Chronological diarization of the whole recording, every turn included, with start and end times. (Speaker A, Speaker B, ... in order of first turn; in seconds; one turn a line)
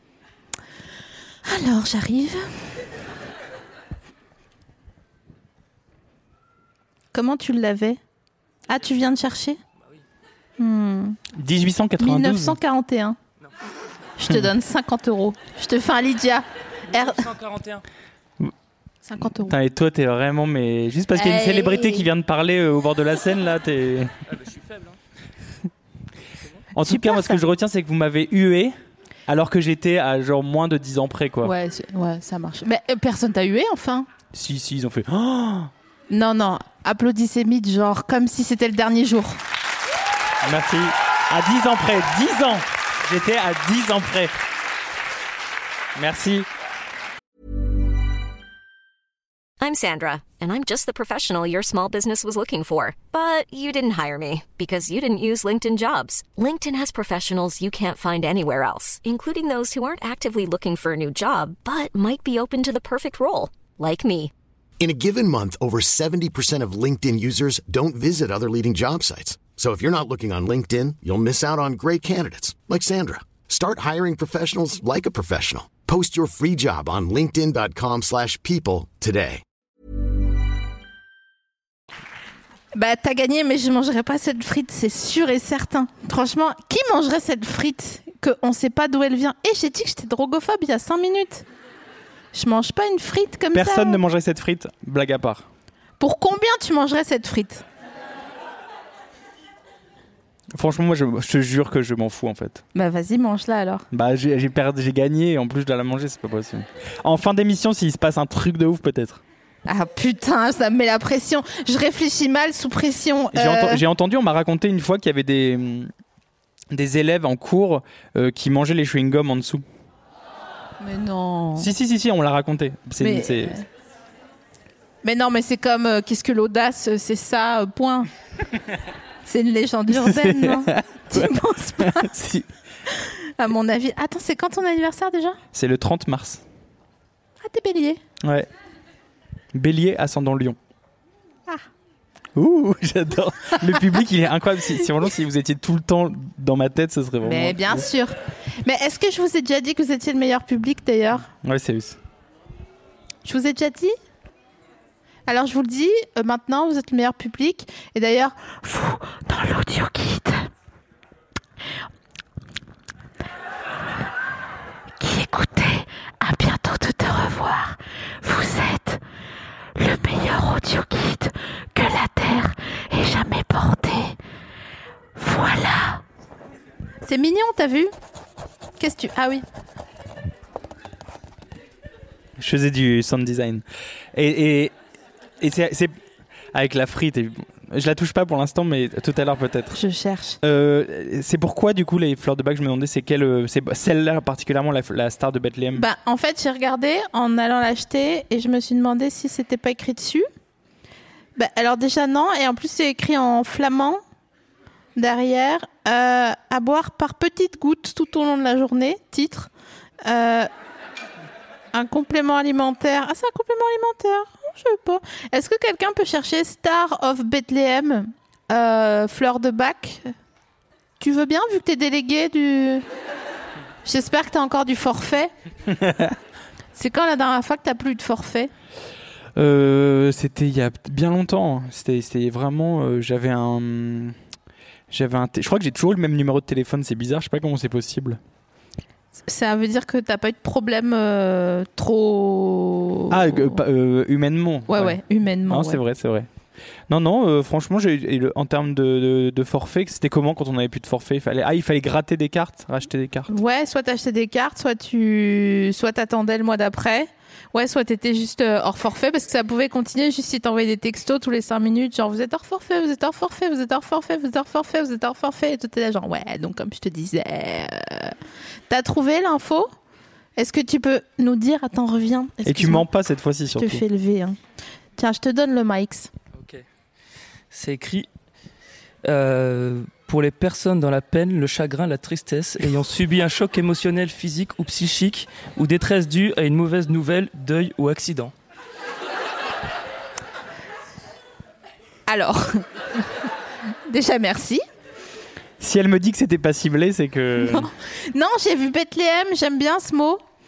Speaker A: 1.4-2.7
Speaker A: 7.1-8.0
Speaker A: 8.7-9.6
Speaker A: 10.6-11.2
Speaker B: 11.3-12.6
Speaker A: 12.0-13.2
Speaker A: 14.2-17.3
Speaker C: 17.2-17.8
Speaker A: 19.1-19.6
Speaker B: 19.4-24.1
Speaker A: 21.1-22.1
Speaker C: 24.4-24.9
Speaker B: 26.8-28.7
Speaker A: 26.8-27.4
Speaker B: 29.3-31.5
Speaker A: 31.4-34.1
Speaker B: 34.3-35.7
Speaker A: 36.1-39.4
Speaker B: 40.4-44.3
Speaker B: 46.0-46.5
Speaker D: 49.6-64.3
Speaker E: 64.8-79.4
Speaker A: 82.7-91.4
Speaker A: 92.3-94.0
Speaker B: 93.5-95.5
Speaker A: 96.0-97.6
Speaker B: 100.5-102.6
Speaker A: 102.8-103.9
Speaker B: 103.9-109.2
Speaker A: 109.7-113.8
Speaker B: 113.3-115.9
Speaker B: 116.7-119.6
Speaker A: 120.8-121.7
Speaker B: 121.6-123.6
Speaker A: 123.0-123.7
Speaker A: 125.0-128.1
Speaker A: 129.2-132.1
Speaker B: 129.9-132.5
Speaker A: 132.9-135.4
Speaker B: 135.5-136.4
Speaker A: 137.4-138.0
Speaker B: 138.2-138.5
Speaker B: 139.5-140.6
Speaker B: 142.4-147.9
Speaker A: 147.2-151.3
Speaker B: 151.3-152.0
Speaker A: 153.2-153.9
Speaker A: 155.3-160.5
Speaker A: 165.0-169.0
Speaker A: 169.8-174.2
Speaker A: 175.2-176.0
Speaker A: 177.0-177.9
Speaker A: 178.8-179.4
Speaker B: 182.4-184.7
Speaker B: 185.4-185.9
Speaker B: 186.5-189.8
Speaker A: 189.7-190.4
Speaker B: 190.4-195.9
Speaker A: 195.8-200.3
Speaker A: 201.4-204.0
Speaker A: 205.0-209.5
Speaker A: 210.0-210.5
Speaker A: 211.7-220.1
Speaker A: 221.0-222.8
Speaker A: 223.8-225.3
Speaker B: 225.8-226.1
Speaker A: 226.8-228.5
Speaker B: 229.3-234.2
Speaker B: 234.9-238.2
Speaker A: 239.2-243.6
Speaker B: 243.1-246.3
Speaker A: 244.7-245.8
Speaker B: 246.9-253.3
Speaker A: 253.3-268.1
Speaker A: 268.7-269.7
Speaker A: 270.4-272.9
Speaker B: 272.4-273.8
Speaker A: 273.6-274.4
Speaker A: 275.0-276.1
Speaker C: 277.5-278.1
Speaker C: 279.0-288.3
Speaker A: 292.1-293.0
Speaker A: 293.9-294.6
Speaker B: 295.6-297.7
Speaker A: 297.4-300.2